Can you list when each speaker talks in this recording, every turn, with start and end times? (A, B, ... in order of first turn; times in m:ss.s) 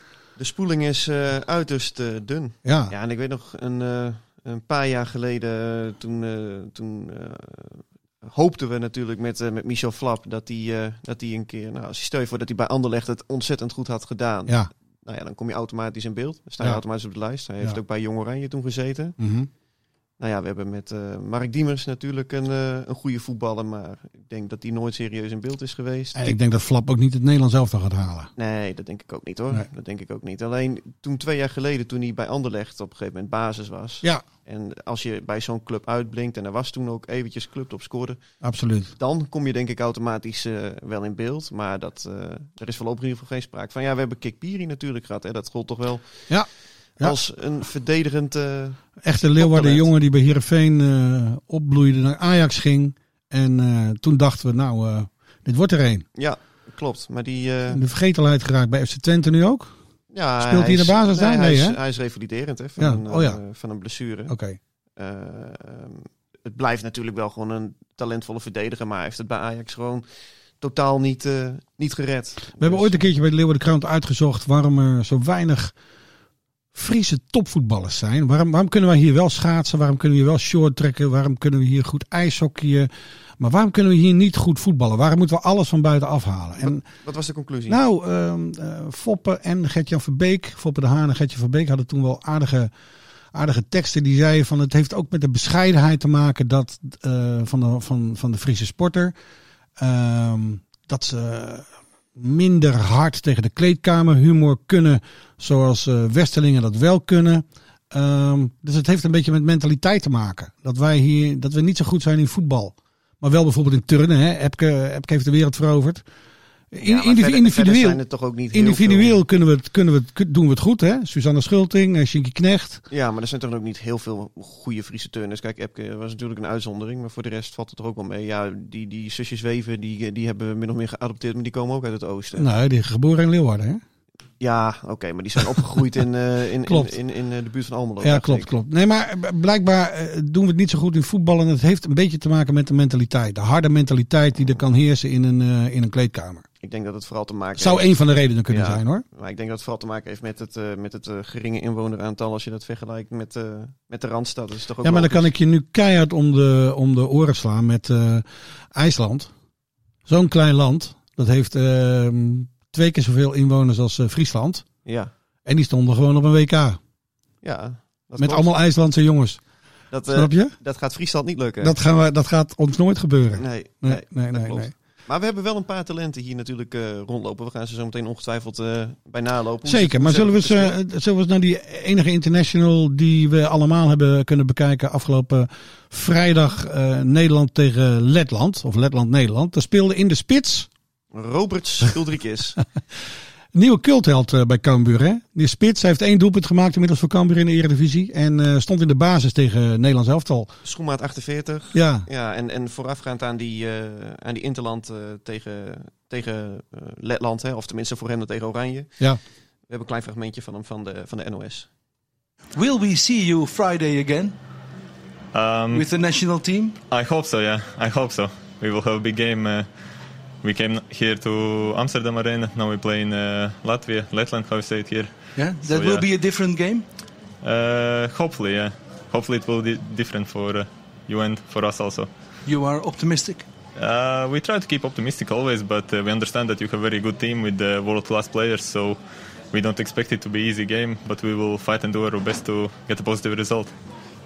0:00.4-0:19.2 A
0:02.6-0:02.9 B
0:19.2-0:19.5 B
0:20.2-0:26.4 A
0:26.2-0:28.3 B
0:28.4-0:38.2 A
0:38.4-0:38.9 B
0:39.0-0:46.3 A
0:47.0-0:48.8 A
0:49.0-0:56.0 B
0:49.4-0:49.9 A
0:56.2-0:57.9 A
0:57.7-0:59.8 B
1:00.1-1:04.4 A
1:00.4-1:01.8 B
1:02.8-1:03.4 B
1:04.3-1:04.6 B
1:05.0-1:10.0 A
1:10.6-1:13.1 A
1:12.6-1:15.8 B
1:16.7-1:26.8 B
1:26.6-1:27.8 A
1:27.7-1:32.7 B
1:33.3-1:39.1 B
1:39.8-1:56.0 B
1:56.7-1:58.0 B
1:56.8-1:59.2 A
1:58.5-2:02.8 B
2:02.9-2:12.5 A
2:12.4-2:13.8 B
2:14.4-2:18.5 A
2:16.7-2:16.9 B
2:18.0-2:26.4 B
2:26.6-2:27.9 A
2:27.6-2:29.0 B
2:28.5-2:35.3 A
2:34.8-2:39.3 B
2:40.1-2:44.7 B
2:44.8-2:45.1 A
2:45.4-2:46.8 B
2:47.4-2:48.5 A
2:48.2-2:49.4 B
2:49.9-2:51.8 A
2:50.1-2:50.6 B
2:51.6-2:54.7 B
2:53.4-3:00.8 A
2:59.6-3:10.7 B
3:11.1-3:12.6 A
3:13.5-3:20.6 B
3:20.6-3:29.0 A
3:21.7-3:22.1 B
3:29.7-3:31.7 A
3:32.6-3:34.4 C
3:35.3-3:35.9 D
3:35.7-3:36.8 C
3:36.9-3:39.7 D
3:40.4-3:45.1 D
3:45.4-3:46.8 C
3:45.7-3:46.1 D
3:47.4-3:52.1 D
3:52.5-3:53.5 C
3:53.8-3:59.0 D
3:59.5-4:03.7 D